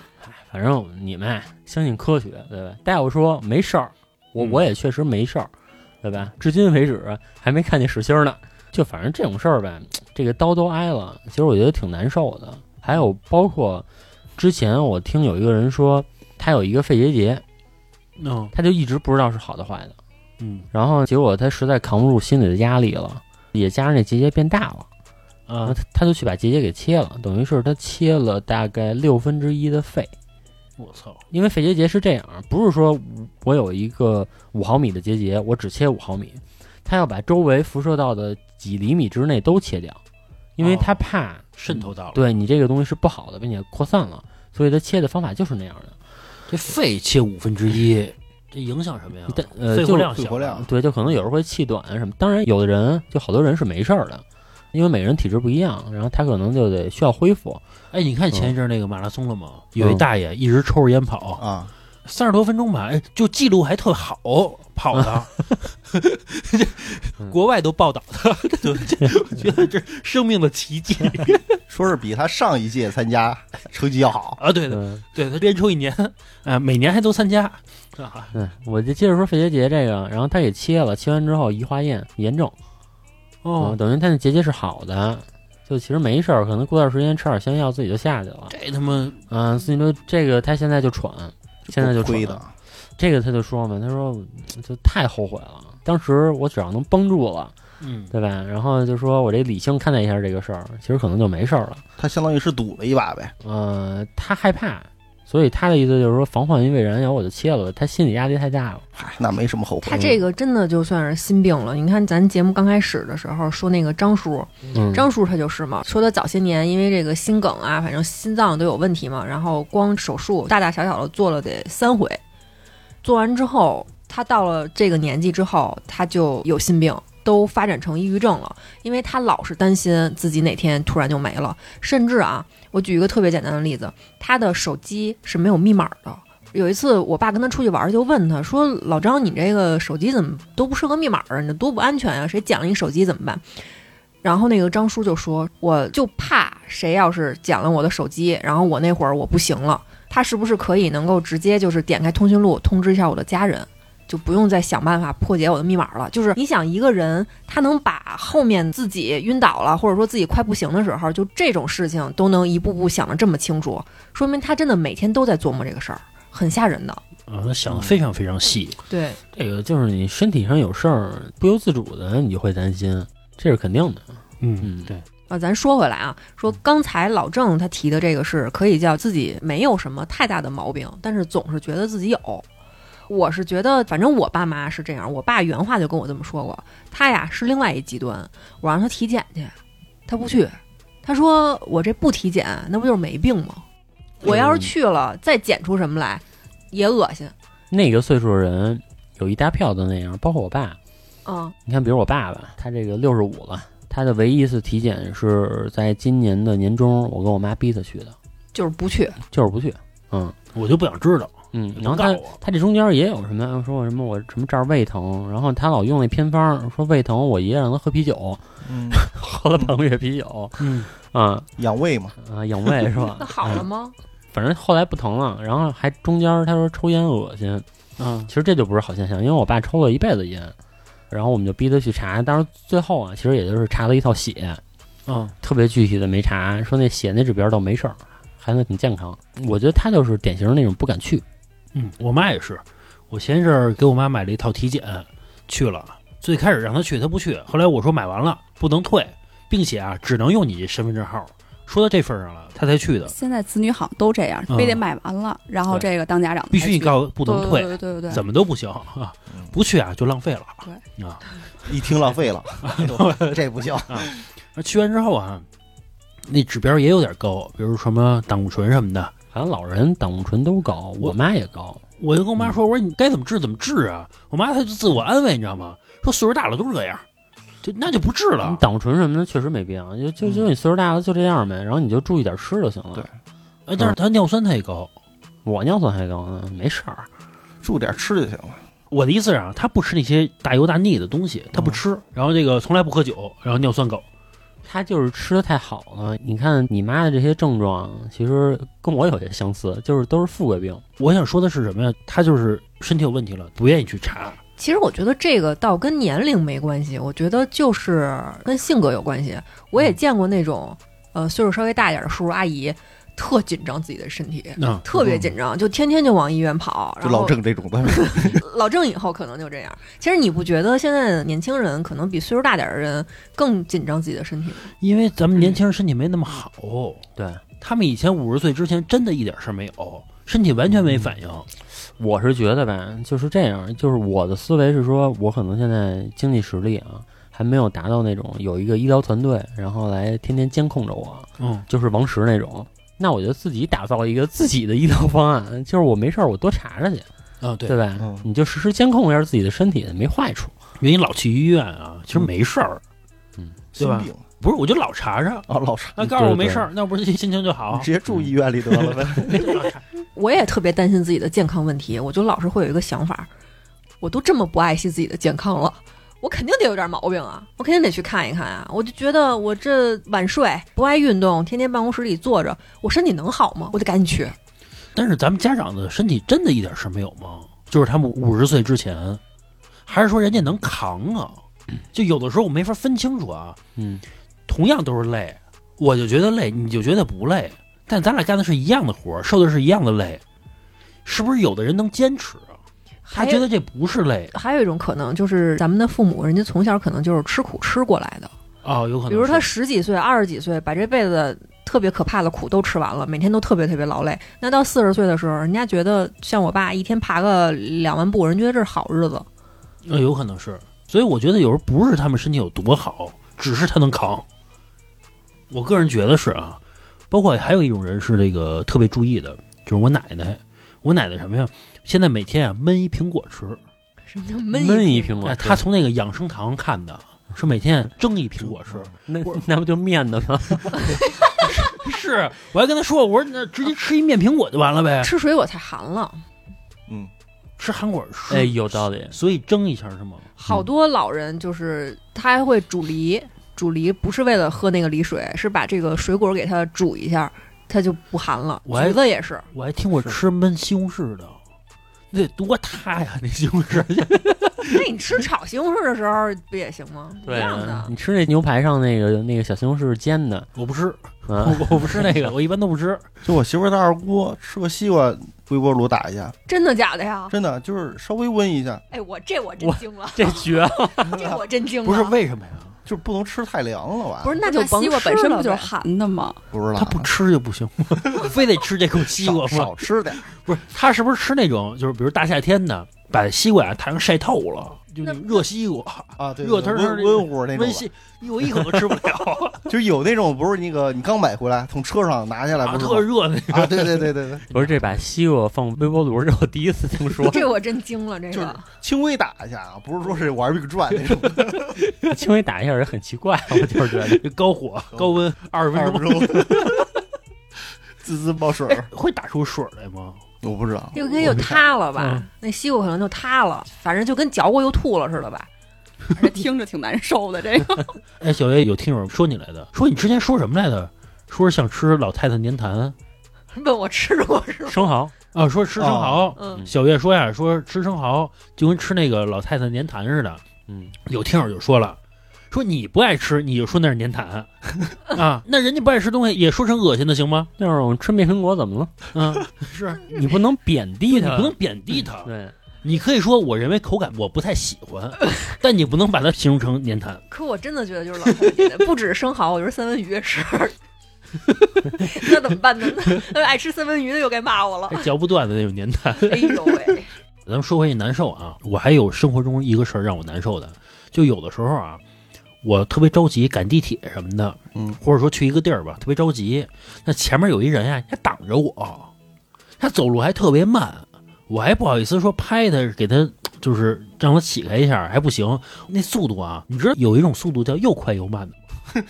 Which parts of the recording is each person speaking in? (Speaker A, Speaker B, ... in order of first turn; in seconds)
Speaker A: 0.2-5.5, 6.0-13.8, 14.4-17.4, 18.5-19.9, 20.7-24.9, 25.7-30.1, 31.3-40.0, 40.6-45.9, 49.3-57.6, 59.8-60.0, 74.7-75.0, 78.3-82.5, 83.6-88.5, 89.3-92.4, 93.0-97.5, 98.1-101.8, 103.4-108.8, 114.7-115.1, 169.3-174.1, 174.6-174.9, 194.2-194.7, 197.7-200.8, 201.7-208.2, 209.3-210.3, 211.5-221.5, 222.2-223.7, 224.3-227.7, 228.3-230.5, 231.1-234.6, 235.4-241.2, 269.3-271.8, 278.4-283.1, 285.4-287.1, 294.6-300.8, 327.2-327.4, 332.0-347.1, 347.7-350.5, 356.1-356.7, 383.8-384.0, 424.5-425.6, 429.1-431.1, 438.3-439.2, 457.2-460.5, 461.3-462.2, 469.6-471.3, 494.5-497.4, 502.1-504.2, 524.7-525.1, 530.7-531.0, 537.6-539.1, 540.0-542.5
Speaker B: 4.4-4.6, 18.2-18.5, 20.4-20.7, 25.5-25.8, 30.8-31.2, 40.6-41.0, 41.6-42.2, 46.5-50.7, 57.9-61.4, 62.0-71.4, 74.4-78.3, 83.4-83.8, 88.5-89.2, 97.8-98.1, 167.3-168.8, 174.4-175.1, 210.5-212.4, 220.6-220.9, 228.0-228.3, 235.1-235.3, 241.7-253.1, 254.5-254.8, 256.5-261.2, 262.6-265.4, 266.3-269.1, 272.0-277.0, 277.6-278.6, 283.7-284.9, 288.9-294.1, 301.0-304.4, 314.6-314.8, 324.8-327.0, 327.6-331.5, 341.4-341.7, 347.4-347.8, 350.8-352.8, 353.8-357.9, 358.8-359.8, 374.9-379.2, 379.9-381.4, 381.9-383.6, 384.5-390.2, 391.1-392.6, 393.1-394.3, 398.6-399.5, 409.9-414.2, 415.5-416.6, 417.1-423.6, 425.2-428.9, 431.4-435.1, 437.6-440.3, 448.7-449.0, 449.5-451.4, 452.1-454.8, 460.6-463.0, 471.9-472.8, 476.8-489.6, 492.6-494.9, 504.0-506.8, 508.9-510.2, 511.2-512.2, 518.2-523.0, 525.3-530.4, 531.1-532.0, 532.5-537.5, 539.1-540.1, 541.1-542.3, 542.8-547.2, 554.9-556.7, 557.5-562.0, 562.6-569.1, 569.8-578.6
Speaker C: 50.1-50.7, 61.4-61.7, 71.7-74.4, 91.7-92.5, 102.0-103.3, 109.0-110.2, 218.6-219.1, 221.6-222.2, 261.6-264.1, 280.2-280.5, 287.6-288.6, 314.9-315.3, 317.0-318.4, 348.0-348.3, 353.7-354.2, 355.5-356.1, 357.7-359.6, 463.2-466.3, 467.3-468.8, 472.9-474.4, 476.5-477.1, 479.1-480.2, 486.2-487.9, 489.7-494.5, 498.3-501.8, 505.7-506.9, 508.0-508.9, 510.4-511.6, 525.8-526.3
Speaker D: 109.8-122.2, 123.0-143.4, 144.2-167.0, 168.9-169.2, 175.3-182.4, 183.1-189.6, 190.1-193.6, 194.2-197.3, 201.2-201.6, 208.5-209.2, 223.2-223.9, 304.6-324.7, 360.1-363.3, 364.0-374.4, 393.1-393.5, 394.3-398.3, 399.1-409.3, 424.1-425.2, 435.0-436.2, 440.4-449.5, 454.7-457.9, 466.5-467.4, 468.9-472.1, 474.2-475.7, 497.2-498.7, 510.9-515.5, 523.5-524.9, 526.4-526.6, 547.3-550.8, 552.0-555.1, 556.3-557.1
Speaker E: 253.1-258.2, 474.4-476.4, 516.2-518.0